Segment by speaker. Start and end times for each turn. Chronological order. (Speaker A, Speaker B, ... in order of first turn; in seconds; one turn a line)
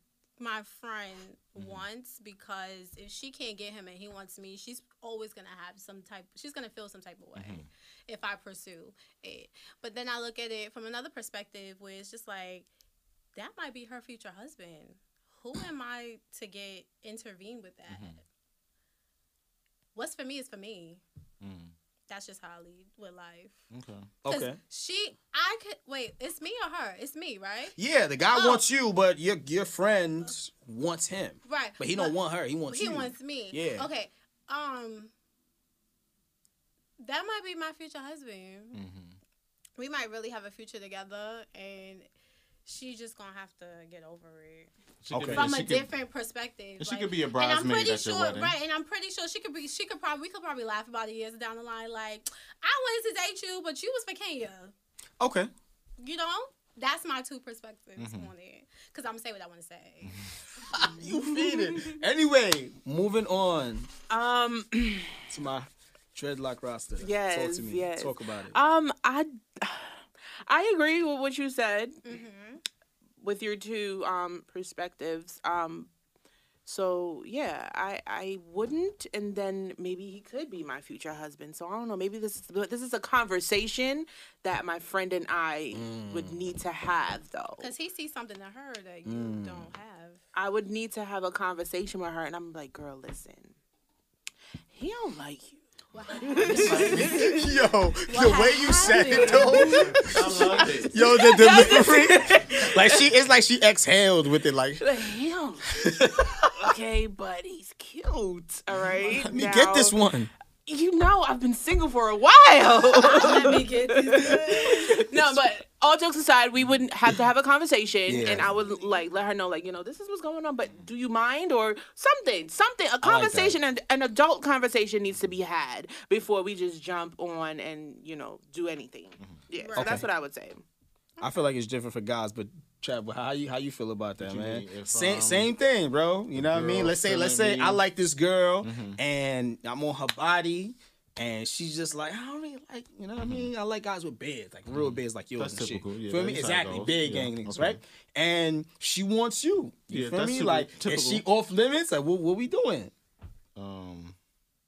Speaker A: 0.4-12.7
Speaker B: 1.6-1.8
Speaker B: 7.3-7.7
Speaker A: 13.3-18.2
Speaker B: 17.9-18.2
Speaker A: 19.9-21.0
Speaker B: 21.4-21.7
Speaker A: 22.1-23.6
Speaker B: 23.7-24.1
Speaker C: 24.2-24.6
Speaker A: 24.3-27.7
Speaker C: 27.8-33.9
Speaker A: 28.3-28.6
Speaker A: 31.4-32.2
Speaker A: 32.7-35.1
Speaker A: 37.0-38.8
Speaker B: 38.7-39.1
Speaker A: 39.8-42.1
Speaker A: 42.6-44.7
Speaker B: 45.0-45.9
Speaker C: 45.1-45.5
Speaker A: 45.3-54.7
Speaker B: 46.8-48.5
Speaker C: 55.2-55.5
Speaker A: 56.0-60.2
Speaker B: 58.0-58.3
Speaker C: 60.7-63.9
Speaker D: 64.1-65.2
Speaker C: 65.3-68.5
Speaker D: 67.0-69.9
Speaker D: 70.5-72.0
Speaker A: 72.0-72.6
Speaker D: 73.2-75.9
Speaker D: 76.7-87.7
Speaker C: 85.7-86.5
Speaker A: 87.6-90.2
Speaker C: 89.0-89.7
Speaker D: 90.3-93.5
Speaker D: 94.7-95.6
Speaker A: 95.9-97.3
Speaker D: 96.3-97.4
Speaker C: 96.3-104.8
Speaker A: 98.1-99.9
Speaker B: 100.0-100.9
Speaker D: 101.0-103.1
Speaker D: 104.8-110.0
Speaker C: 105.7-106.7
Speaker C: 109.0-110.3
Speaker D: 110.7-130.6
Speaker A: 113.0-115.1
Speaker C: 118.1-118.5
Speaker C: 123.0-123.6
Speaker A: 129.6-130.0
Speaker C: 129.8-130.1
Speaker A: 131.2-131.4
Speaker C: 131.2-152.9
Speaker B: 134.2-135.5
Speaker B: 136.3-137.8
Speaker B: 138.6-139.0
Speaker B: 143.2-143.5
Speaker B: 144.7-147.8
Speaker B: 149.9-151.2
Speaker B: 153.6-154.1